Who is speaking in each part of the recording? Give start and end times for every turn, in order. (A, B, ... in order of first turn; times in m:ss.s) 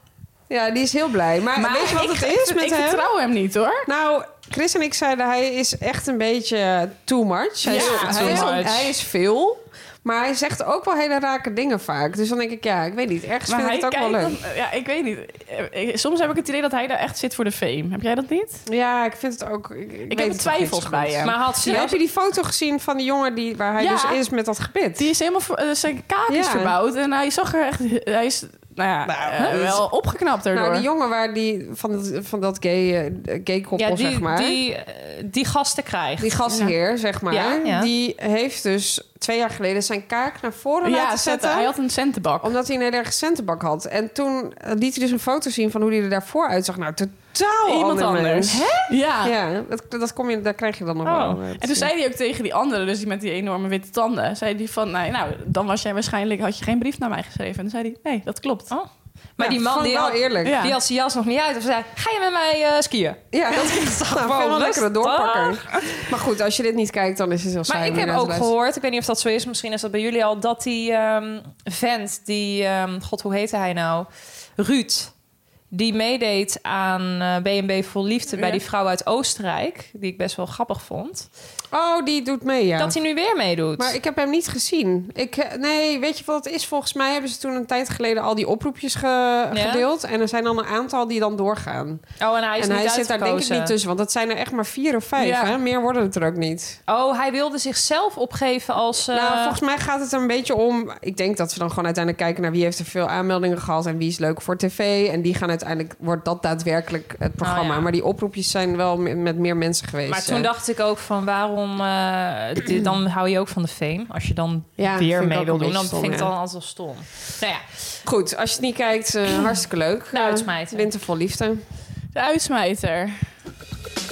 0:00.5-0:03.1 A
0:01.6-0:03.9 B
0:03.8-0:14.4 A
0:07.6-0:08.9 B
0:07.7-0:08.9 C
0:13.5-0:18.6 B
0:18.6-0:25.1 A
0:20.1-0:21.8 B
0:21.2-0:22.0 C
0:23.8-0:24.2 B
0:25.0-0:30.9 B
0:26.3-0:26.7 A
0:29.0-0:29.8 A
0:29.4-0:29.6 C
0:30.5-0:34.6 A
0:33.8-0:36.4 C
0:36.2-0:41.7 A
0:37.3-0:37.9 C
0:40.8-0:42.5 B
0:42.4-0:51.9 A
0:47.7-0:49.3 B
0:47.8-0:48.9 C
0:51.0-0:51.4 C
0:51.6-0:58.7 B
0:58.7-1:06.1 C
0:59.4-1:00.6 A
1:00.4-1:00.7 B
1:03.3-1:08.5 A
1:07.7-1:15.1 C
1:15.7-1:21.3 C
1:18.3-1:18.6 B
1:21.7-1:23.0 A
1:22.8-1:23.9 C
1:23.8-1:32.0 A
1:29.5-1:29.8 C
1:32.2-1:33.7 C
1:32.6-1:36.8 A
1:35.2-1:35.5 C
1:36.9-1:39.6 C
1:39.1-1:50.5 A
1:47.4-1:47.9 C
1:50.1-1:57.6 C
1:54.8-1:56.3 A
1:58.0-2:01.6 A
2:00.1-2:00.9 C
2:02.1-2:03.3 B